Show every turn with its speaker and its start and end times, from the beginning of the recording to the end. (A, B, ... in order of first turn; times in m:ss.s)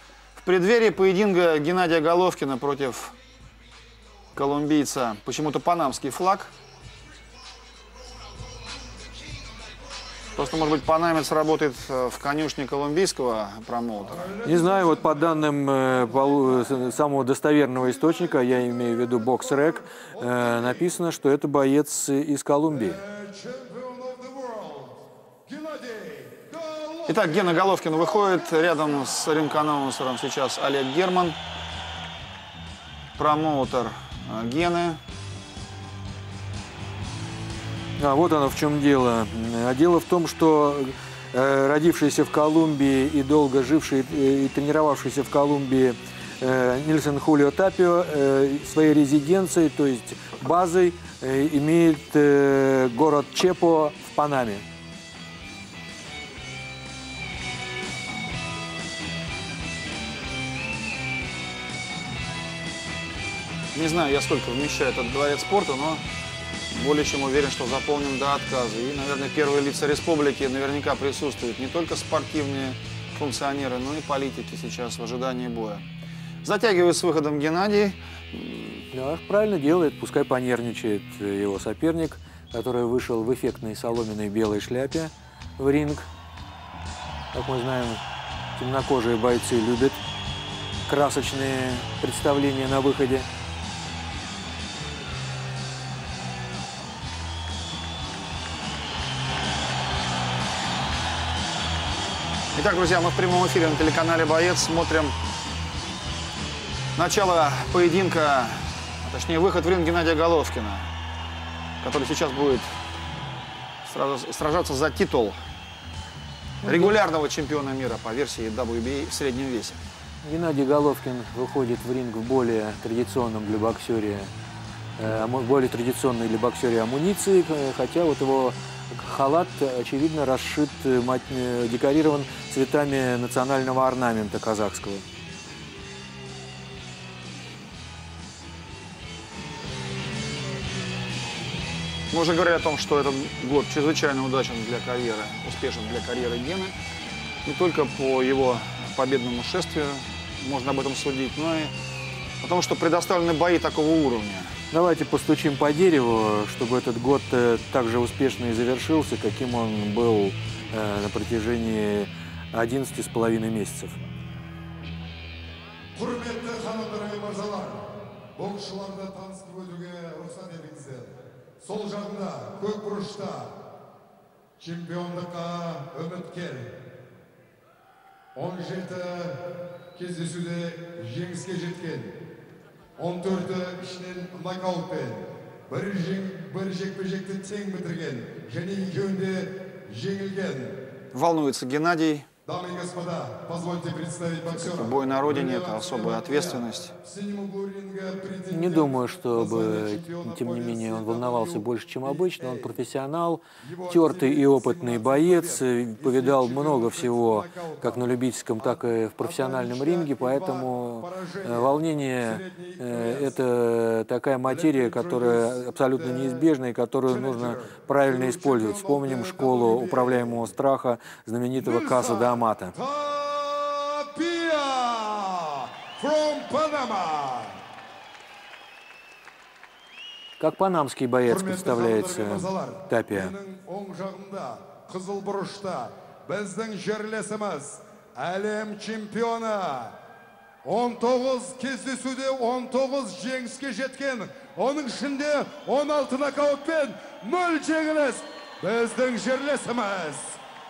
0:00.4-0:03.2 A
0:04.3-0:06.5 A
0:10.4-0:14.3 A
0:14.1-0:16.8 B
0:14.4-0:23.0 C
0:18.0-0:20.9 B
0:22.7-0:27.8 B
0:27.1-0:31.4 A
0:33.2-0:35.0 A
0:38.0-0:54.6 C
1:03.7-1:06.0 A
1:06.7-1:15.8 A
1:16.4-1:18.8 A
1:18.9-1:26.1 C
1:27.3-1:28.0 C
1:28.6-1:30.0 C
1:30.8-1:33.3 C
1:42.5-1:45.1 A
1:47.0-1:50.9 A
1:51.8-1:52.7 A
1:53.8-1:55.4 A
1:56.6-1:57.0 C
1:56.6-1:59.8 A
2:00.2-2:04.3 C
2:05.0-2:15.0 C
2:22.1-2:26.7 A
2:27.4-2:31.7 A
2:32.4-2:34.6 A
2:34.7-2:44.0 C
2:45.9-2:53.6 B
2:54.6-2:56.8 B
2:58.3-3:02.2 B
3:03.0-3:10.8 B
3:11.1-3:12.3 A
3:12.4-3:22.7 B
3:14.5-3:16.9 A
3:18.5-3:42.7 C
3:23.6-3:33.4 B
3:34.5-3:36.5 B
3:37.0-3:40.5 B
3:41.6-3:47.6 B
3:50.4-3:53.3 C
3:51.2-4:00.0 B
4:00.6-4:10.4 B